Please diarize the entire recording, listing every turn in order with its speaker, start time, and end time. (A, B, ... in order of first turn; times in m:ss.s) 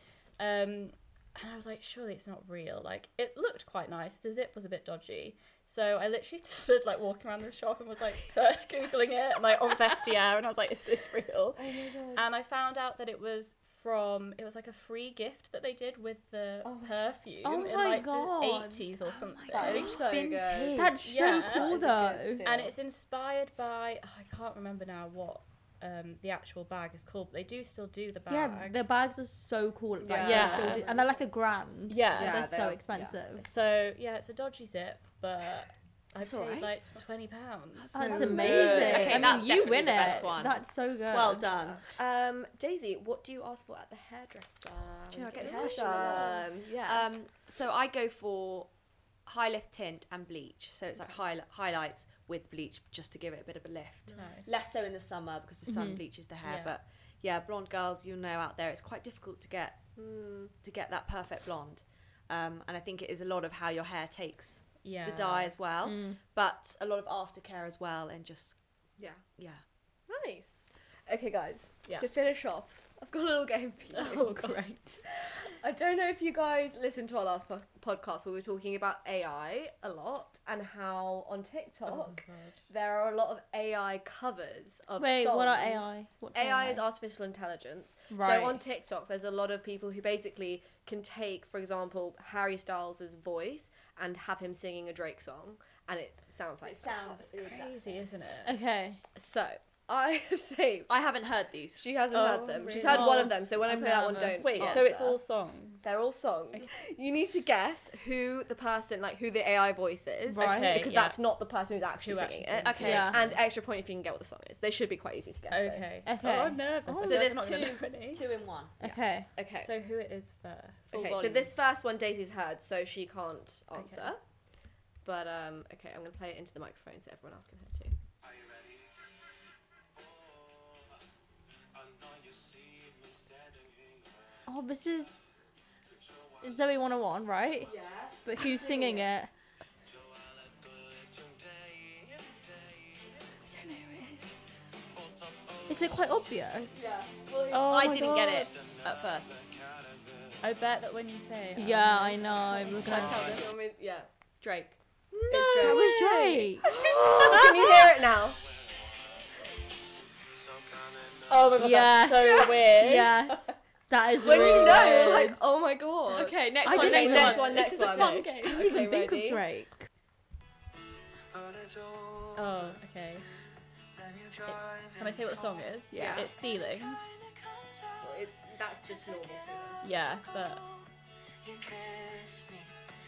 0:00.4-0:20.0 A
0:11.6-0:12.2 B
0:16.6-0:16.9 B
0:17.4-0:18.8 C
0:19.1-0:21.0 D
0:19.5-0:22.8 B
0:20.8-0:22.4 C
0:21.0-0:21.8 A
0:22.4-0:28.8 A
0:28.3-0:33.5 C
0:30.0-0:31.2 B
0:30.2-0:30.9 A
0:31.9-0:32.5 A
0:32.1-0:33.2 B
0:33.4-0:39.9 A
0:36.2-0:36.7 D
0:37.8-0:41.8 D
0:37.9-0:41.5 C
0:38.0-0:40.5 B
0:41.6-0:47.1 B
0:45.1-0:48.7 D
0:45.3-0:46.4 A
0:49.3-0:59.9 D
0:54.1-0:54.5 B
0:54.1-0:54.5 A
0:55.7-0:56.0 C
0:56.4-0:56.7 A
1:00.0-1:00.5 B
1:00.6-1:08.6 D
1:04.8-1:05.6 A
1:05.8-1:06.2 C
1:09.0-1:09.2 B
1:09.4-1:09.6 D
1:10.1-1:38.4 B
1:13.9-1:15.0 A
1:21.8-1:22.6 A
1:25.0-1:26.8 C
1:28.1-1:28.6 C
1:36.6-1:38.0 D
1:37.5-1:38.5 A
1:38.4-1:39.0 C
1:39.2-1:40.9 B
1:40.9-1:41.8 D
1:41.8-1:45.2 B
1:42.1-1:46.0 A
1:42.8-1:43.3 D
1:43.0-1:44.7 C
1:44.5-1:44.9 D
1:45.8-1:55.9 B
1:50.3-1:50.8 C
1:50.4-1:51.2 A
1:52.0-1:53.4 A
1:52.6-1:53.3 D
1:52.8-1:53.2 C
1:55.5-1:58.2 A
1:56.1-1:57.7 C
1:56.9-1:59.0 D
1:58.8-1:59.3 C
1:59.4-1:59.7 B
1:59.6-2:01.2 A
2:00.9-2:04.2 B
2:00.9-2:01.5 D
2:03.8-2:04.1 A
2:05.0-2:08.0 B
2:08.2-2:09.0 E
2:10.0-2:11.0 E
2:11.7-2:14.5 E
2:14.5-2:15.2 C
2:15.9-2:17.3 E
2:16.4-2:17.7 C
2:17.7-2:19.1 D
2:17.8-2:18.8 B
2:18.2-2:19.3 C
2:19.9-2:23.4 E
2:24.9-2:26.2 E
2:25.7-2:27.0 C
2:26.8-2:27.9 B
2:26.8-2:29.4 D
2:27.5-2:28.3 A
2:27.5-2:28.1 C
2:28.0-2:30.6 E
2:30.4-2:33.1 A
2:31.6-2:33.4 C
2:32.6-2:34.1 B
2:32.8-2:33.5 D
2:34.4-2:34.8 D
2:35.3-2:38.1 D
2:35.3-2:35.9 B
2:35.5-2:36.7 C
2:36.6-2:38.4 B
2:38.4-2:39.7 E
2:40.2-2:41.8 E
2:41.3-2:43.2 A
2:41.6-2:45.4 C
2:42.2-2:42.7 B
2:44.1-2:49.4 B
2:44.2-2:45.4 D
2:46.1-2:48.8 D
2:46.6-2:48.3 A
2:46.7-2:49.9 C
2:51.3-2:52.8 E
2:52.4-2:53.3 A
2:54.0-2:58.1 E
2:54.5-2:57.1 A
2:55.9-2:56.3 D
2:56.0-2:56.2 B
2:58.0-3:00.0 B
2:59.0-3:00.8 E
2:59.8-3:00.6 A
3:01.4-3:02.8 E